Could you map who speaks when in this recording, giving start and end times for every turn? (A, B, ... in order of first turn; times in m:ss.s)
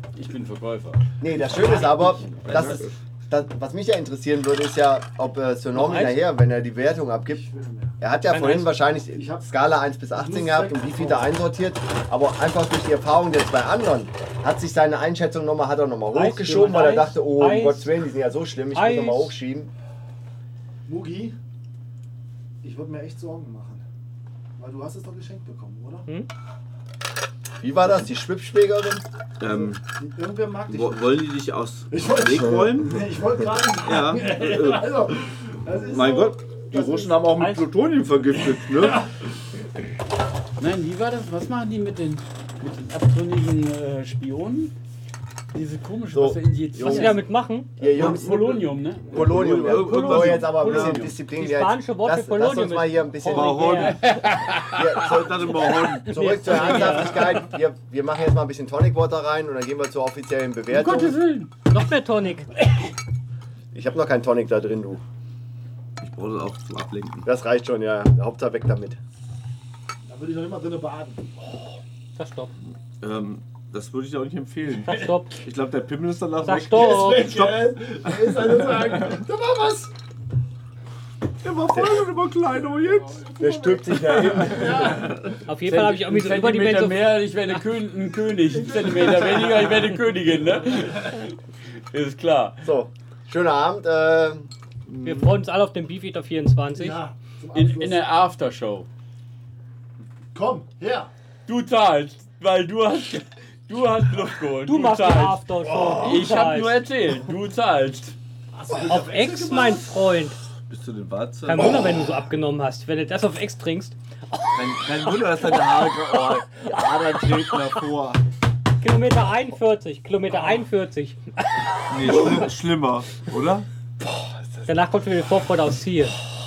0:00.2-0:01.0 A
0:01.2-0:07.4 B
0:01.5-0:02.3 C
0:02.3-0:02.9 D
0:02.5-0:02.8 A
0:05.8-0:06.2 E
0:07.3-0:08.0 C
0:08.0-0:19.7 B
0:08.3-0:08.7 E
0:09.1-0:09.6 C
0:10.1-0:11.3 C
0:16.1-0:17.9 E
0:18.7-0:19.4 E
0:20.9-0:21.4 C
0:22.6-0:23.8 C
0:24.6-0:26.1 C
0:27.6-0:29.0 B
0:29.4-0:29.8 D
0:29.4-0:31.3 C
0:30.7-0:33.0 D
0:31.9-0:36.8 C
0:33.8-0:34.9 D
0:35.8-0:39.1 D
0:37.3-0:37.7 E
0:38.8-0:39.1 C
0:40.6-0:44.7 A
0:45.5-0:47.2 A
0:46.1-0:47.2 B
0:46.8-0:47.8 E
0:47.8-0:48.4 B
0:47.9-0:48.6 D
0:47.9-0:51.1 A
0:49.1-0:51.2 D
0:49.1-0:53.9 B
0:51.3-0:54.0 E
0:53.3-0:53.9 D
0:53.8-0:55.1 A
0:54.7-0:55.5 B
0:55.0-0:57.1 D
0:55.7-0:57.4 E
0:56.1-1:01.2 B
1:00.7-1:01.5 A
1:01.7-1:02.5 E
1:03.7-1:05.0 B
1:06.0-1:07.3 D
1:07.3-1:09.0 B
1:10.1-1:11.4 C
1:12.2-1:12.5 E
1:13.0-1:19.2 D
1:14.9-1:15.4 E
1:16.4-1:17.3 E
1:16.7-1:19.9 C
1:21.4-1:23.5 D
1:23.1-1:25.3 C
1:23.4-1:25.0 B
1:25.0-1:25.3 D
1:25.5-1:27.6 E
1:25.7-1:31.4 A
1:28.5-1:29.7 C
1:31.9-1:32.6 A
1:32.6-1:34.5 B
1:34.9-1:35.4 D
1:35.0-1:37.0 E
1:36.8-1:38.0 C
1:37.5-1:38.9 A
1:40.3-1:41.1 C
1:41.5-1:48.2 A
1:44.6-1:46.8 E
1:45.7-1:46.1 B
1:48.5-1:50.0 C
1:48.9-1:50.4 E
1:50.7-1:52.0 D
1:51.5-1:57.8 E
1:54.5-1:58.2 D
1:58.8-2:02.4 E
2:01.9-2:03.7 D
2:04.0-2:04.7 B
2:04.7-2:06.2 E